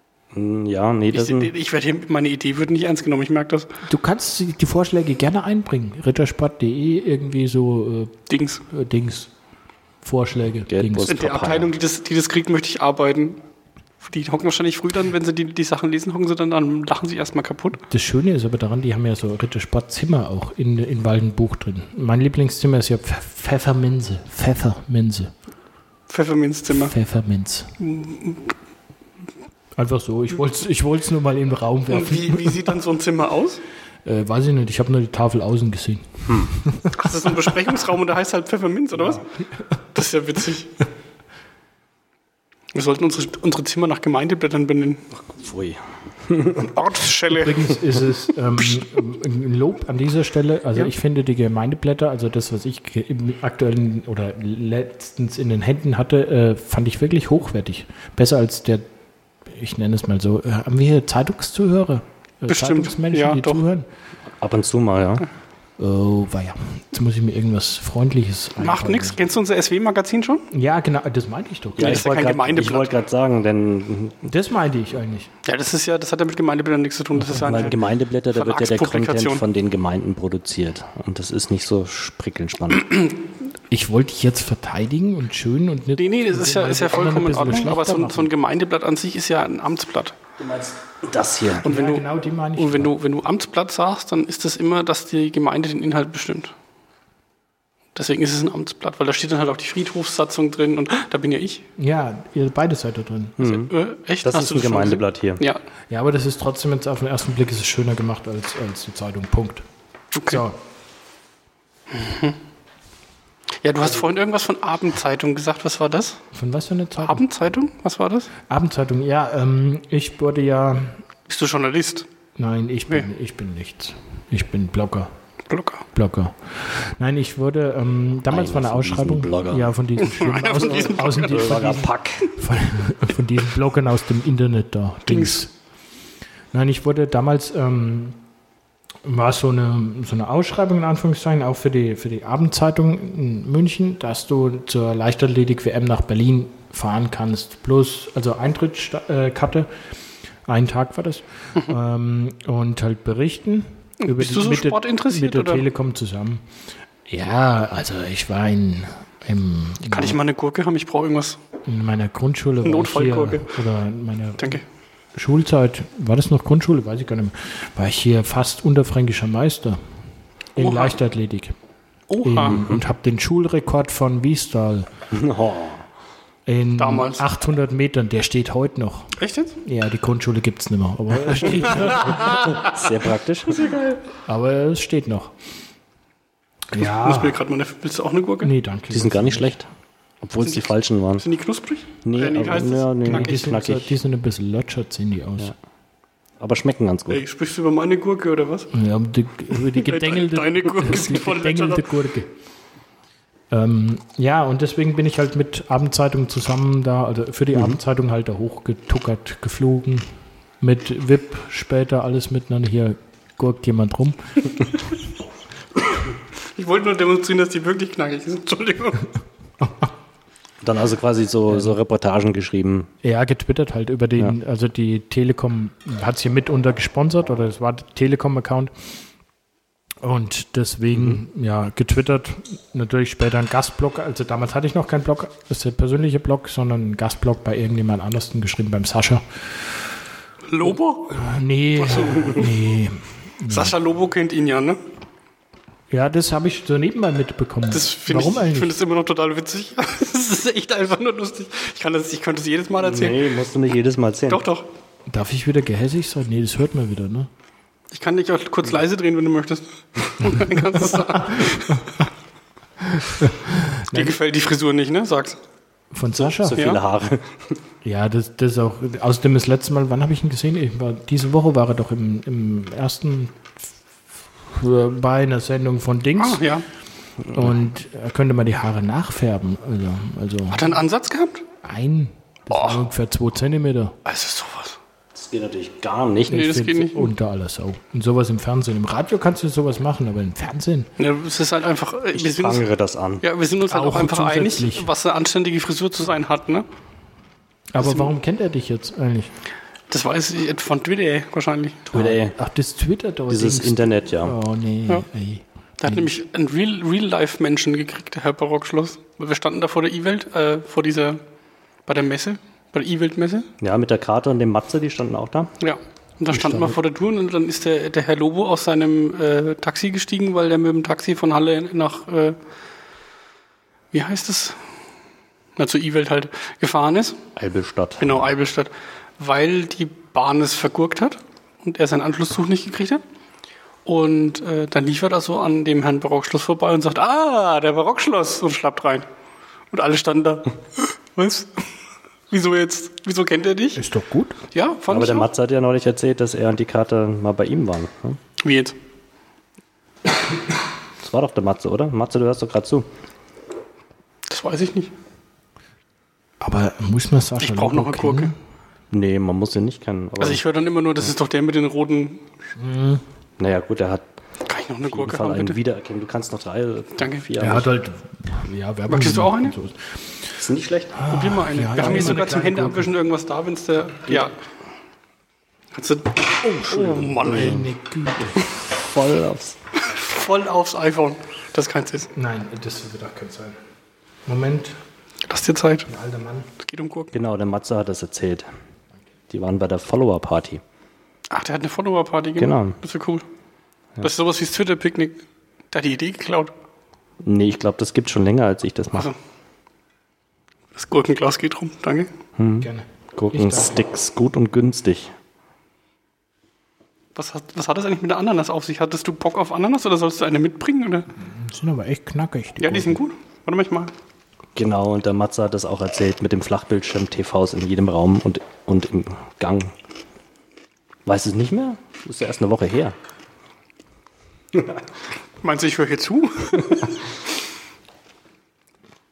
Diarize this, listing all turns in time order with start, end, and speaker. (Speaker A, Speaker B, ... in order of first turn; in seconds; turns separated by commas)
Speaker A: 0.3-1.5, Speaker B: 1.1-3.7, Speaker C: 3.9-9.3, Speaker B: 8.3-8.6, Speaker C: 10.0-11.1, Speaker A: 10.7-11.7, Speaker B: 11.1-13.4, Speaker B: 14.0-17.8, Speaker C: 17.9-25.3, Speaker B: 26.1-26.9, Speaker C: 26.8-27.7, Speaker B: 27.8-28.5, Speaker C: 29.8-32.7, Speaker B: 31.9-33.6, Speaker C: 34.0-37.5, Speaker B: 37.0-39.2, Speaker B: 39.9-40.7, Speaker B: 42.7-45.0, Speaker A: 45.1-46.7, Speaker B: 46.6-47.8, Speaker C: 47.3-58.9, Speaker C: 59.5-63.9, Speaker B: 62.5-63.6, Speaker A: 64.4-65.3, Speaker C: 65.8-69.2, Speaker B: 68.6-70.5, Speaker C: 70.5-72.1, Speaker A: 71.8-74.3, Speaker B: 71.8-72.9, Speaker C: 74.2-75.3, Speaker B: 75.4-77.8, Speaker C: 77.2-77.6, Speaker A: 77.3-83.0, Speaker B: 78.3-79.4, Speaker C: 83.7-88.3, Speaker B: 86.0-90.2, Speaker A: 90.4-91.7, Speaker C: 91.7-92.9, Speaker B: 91.7-96.5, Speaker B: 98.0-101.6, Speaker C: 101.8-103.4, Speaker A: 103.4-103.7, Speaker B: 103.4-105.6, Speaker A: 104.2-105.4, Speaker C: 105.9-109.6, Speaker B: 110.2-110.4, Speaker C: 110.3-110.6, Speaker B: 111.9-112.4, Speaker B: 113.6-116.2, Speaker C: 116.3-117.2, Speaker B: 117.0-118.3, Speaker C: 118.5-121.0, Speaker B: 121.3-122.1, Speaker C: 122.4-125.1, Speaker B: 125.5-125.9, Speaker C: 126.0-135.5, Speaker A: 128.3-129.7, Speaker B: 130.0-131.6, Speaker A: 131.2-132.3, Speaker B: 135.1-135.4, Speaker C: 136.5-138.2, Speaker C: 139.0-149.7, Speaker C: 150.5-156.4, Speaker B: 154.0-155.7, Speaker C: 157.1-160.2, Speaker B: 159.9-161.4, Speaker C: 161.7-164.6, Speaker B: 162.6-163.6, Speaker C: 165.2-169.8, Speaker C: 170.6-171.6, Speaker B: 170.6-171.0, Speaker B: 172.1-172.7, Speaker C: 172.2-174.9, Speaker A: 175.1-175.8, Speaker C: 176.5-182.6, Speaker B: 176.8-177.3, Speaker B: 179.2-179.6, Speaker A: 182.2-183.7, Speaker B: 182.2-182.8, Speaker B: 183.5-184.0, Speaker C: 184.3-185.3, Speaker C: 186.7-187.4, Speaker B: 186.8-188.5, Speaker C: 188.4-189.5, Speaker A: 188.9-189.7, Speaker A: 190.2-191.2, Speaker B: 190.4-193.3, Speaker A: 192.1-194.0, Speaker C: 193.1-195.5, Speaker A: 196.4-197.2, Speaker B: 197.1-198.7, Speaker C: 198.7-202.3, Speaker B: 199.5-201.9, Speaker C: 203.5-210.1, Speaker A: 207.5-207.8, Speaker C: 210.6-214.7, Speaker B: 216.6-219.1, Speaker A: 220.6-222.9, Speaker C: 221.5-221.8, Speaker C: 223.0-228.7, Speaker C: 230.0-239.7, Speaker A: 230.9-231.2, Speaker B: 240.5-242.5, Speaker C: 241.1-243.8, Speaker B: 243.5-244.8, Speaker C: 245.9-248.8, Speaker B: 247.7-253.3, Speaker A: 252.8-254.4, Speaker B: 254.3-254.7, Speaker C: 255.1-257.3, Speaker B: 257.9-262.0, Speaker C: 260.9-261.8, Speaker C: 262.9-264.2, Speaker B: 263.9-265.4, Speaker C: 265.9-266.6, Speaker A: 266.1-267.6, Speaker C: 267.8-273.5, Speaker C: 274.5-276.4, Speaker B: 276.2-276.6, Speaker A: 277.3-277.6, Speaker C: 277.3-280.7, Speaker B: 280.5-281.4, Speaker C: 281.6-284.0, Speaker B: 282.5-282.8, Speaker B: 284.1-284.8, Speaker A: 285.1-286.5, Speaker B: 286.3-287.1, Speaker C: 286.3-290.9, Speaker B: 291.0-292.6, Speaker A: 292.1-293.2, Speaker B: 293.2-296.7, Speaker C: 293.7-294.9, Speaker C: 297.7-299.3, Speaker B: 297.8-298.1, Speaker B: 299.9-301.9, Speaker A: 301.9-302.4, Speaker C: 301.9-306.1, Speaker A: 303.3-304.4, Speaker B: 305.8-311.2, Speaker B: 311.9-313.5, Speaker A: 313.6-315.5, Speaker B: 315.6-322.4, Speaker C: 316.3-316.8, Speaker B: 323.9-324.6, Speaker B: 325.6-327.2, Speaker A: 327.4-328.1, Speaker B: 328.0-333.0, Speaker B: 333.9-339.1, Speaker B: 339.7-341.7, Speaker B: 342.3-343.8, Speaker C: 343.8-344.4, Speaker B: 344.5-345.3, Speaker A: 344.9-348.2, Speaker B: 348.4-348.8, Speaker A: 351.0-352.9, Speaker B: 354.3-354.9, Speaker C: 356.4-358.3, Speaker B: 357.4-358.3, Speaker A: 358.9-360.4, Speaker B: 360.2-362.2, Speaker C: 362.6-363.0, Speaker A: 363.4-364.1, Speaker B: 364.4-365.6, Speaker A: 364.8-367.7, Speaker B: 367.0-367.3, Speaker C: 367.4-370.3, Speaker B: 368.9-369.6, Speaker A: 370.4-371.0, Speaker C: 370.9-372.9, Speaker B: 371.1-374.3, Speaker B: 375.7-377.6, Speaker C: 376.4-378.4, Speaker A: 377.0-377.7, Speaker A: 378.2-379.6, Speaker B: 379.8-382.1, Speaker C: 382.2-383.6, Speaker C: 384.3-384.8, Speaker B: 385.3-385.9, Speaker C: 385.9-386.5, Speaker B: 386.6-387.1, Speaker A: 387.1-388.5, Speaker A: 389.3-390.6, Speaker B: 391.3-393.2, Speaker A: 392.4-392.8, Speaker B: 394.0-396.5, Speaker A: 397.2-399.1, Speaker B: 400.8-402.1, Speaker A: 402.4-405.1, Speaker C: 402.6-403.8, Speaker B: 407.2-411.1, Speaker C: 411.2-413.0, Speaker B: 412.6-413.9, Speaker A: 414.6-419.7, Speaker A: 421.1-422.9, Speaker A: 424.5-424.8, Speaker B: 425.4-427.0